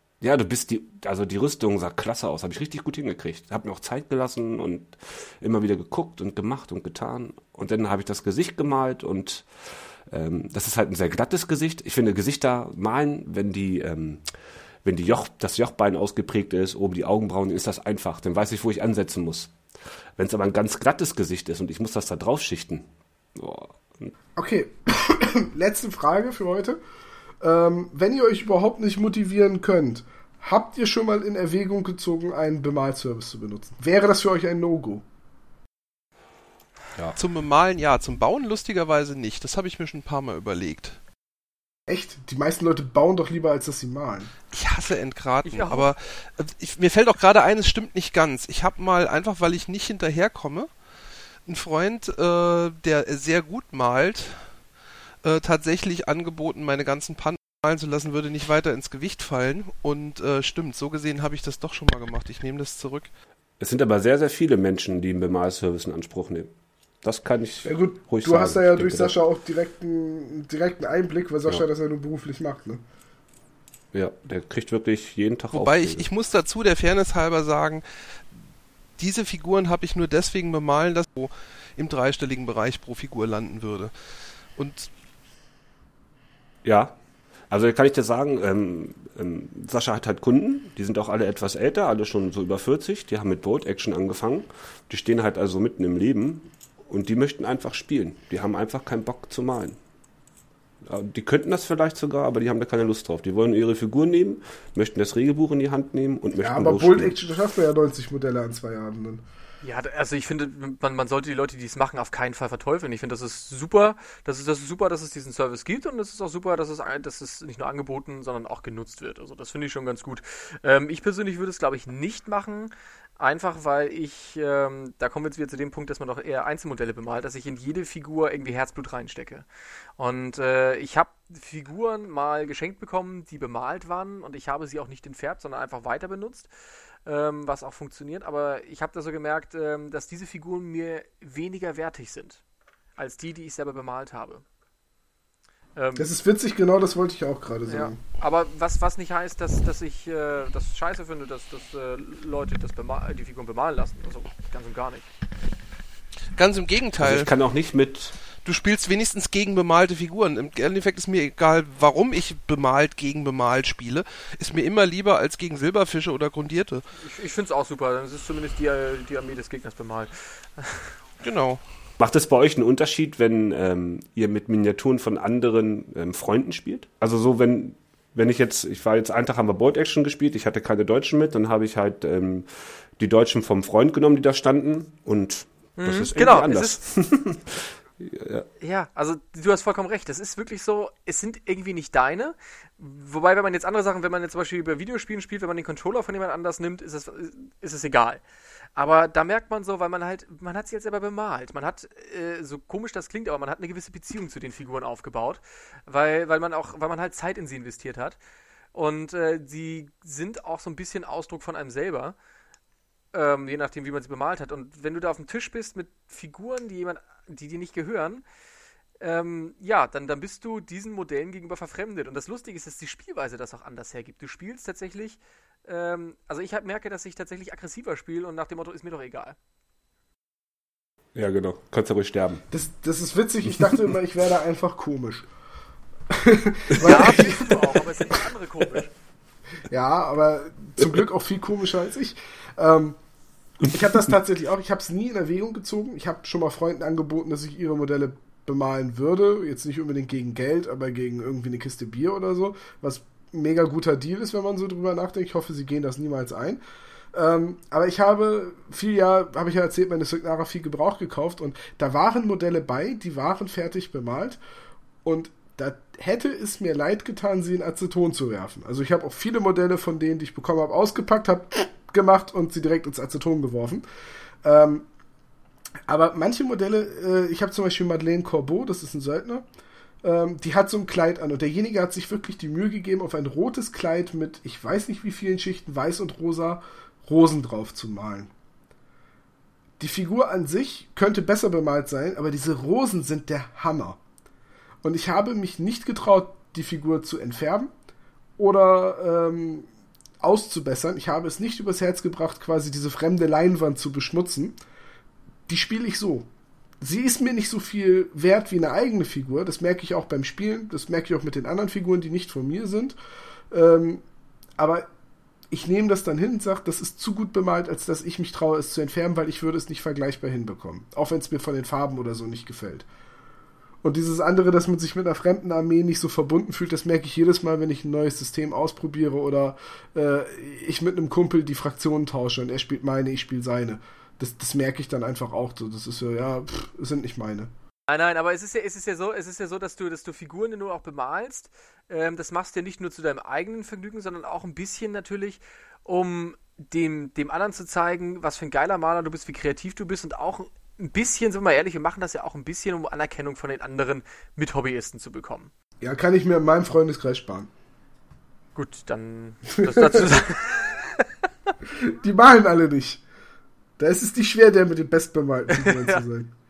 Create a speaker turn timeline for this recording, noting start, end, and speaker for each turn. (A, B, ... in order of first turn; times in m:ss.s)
0:00.2-0:14.2 A
0:14.8-0:19.5 A
0:20.2-0:24.1 A
0:24.4-0:26.8 B
0:27.4-0:35.0 B
0:37.2-0:41.0 C
0:41.9-0:44.3 B
0:44.5-0:50.7 C
0:45.4-0:45.9 D
0:51.4-0:54.5 C
0:55.2-1:03.1 C
1:03.6-1:06.5 A
1:07.0-1:09.1 A
1:07.6-1:12.8 B
1:13.9-1:16.0 A
1:15.5-1:18.4 C
1:19.0-1:23.9 C
1:24.6-1:24.9 C
1:26.6-1:26.9 A
1:27.5-1:39.8 A
1:40.8-1:47.2 A
1:46.4-1:49.2 B
1:49.6-2:09.4 D
2:10.0-2:16.5 D
2:17.0-2:22.4 D
2:23.0-2:24.4 D
2:25.8-2:26.1 D
2:26.0-2:28.0 B
2:27.7-2:35.1 D
2:36.3-2:37.3 C
2:37.0-2:38.2 A
2:38.4-2:46.8 C
2:47.0-2:50.9 D
2:51.2-2:51.6 C
2:52.0-3:08.4 A
3:05.8-3:06.8 D
3:08.6-3:18.2 D
3:18.8-3:28.2 D
3:28.7-3:32.1 D
3:33.1-3:38.2 D
3:39.0-3:49.4 D
3:51.1-3:52.4 A
3:52.5-3:55.3 B
3:56.1-3:58.2 B
3:56.7-3:57.1 A
3:56.8-3:58.9 D
3:59.7-4:03.0 B
4:03.6-4:16.6 B
4:17.1-4:24.4 B
4:25.0-4:33.8 B
4:34.4-4:34.9 B
4:35.9-4:39.4 B
4:40.0-4:48.3 B
4:49.8-4:54.0 B
4:54.8-4:57.7 B
4:58.4-4:59.7 B
5:00.2-5:04.5 B
5:05.5-5:06.3 B
5:06.8-5:13.0 B
5:13.5-5:14.0 B
5:14.6-5:14.9 B
5:15.5-5:22.8 B
5:23.8-5:37.5 B
5:37.9-5:55.5 D
5:55.8-5:57.5 B
5:58.5-6:01.0 D
5:59.6-6:00.2 B
6:01.7-6:03.0 B
6:03.8-6:06.3 B
6:05.5-6:06.0 D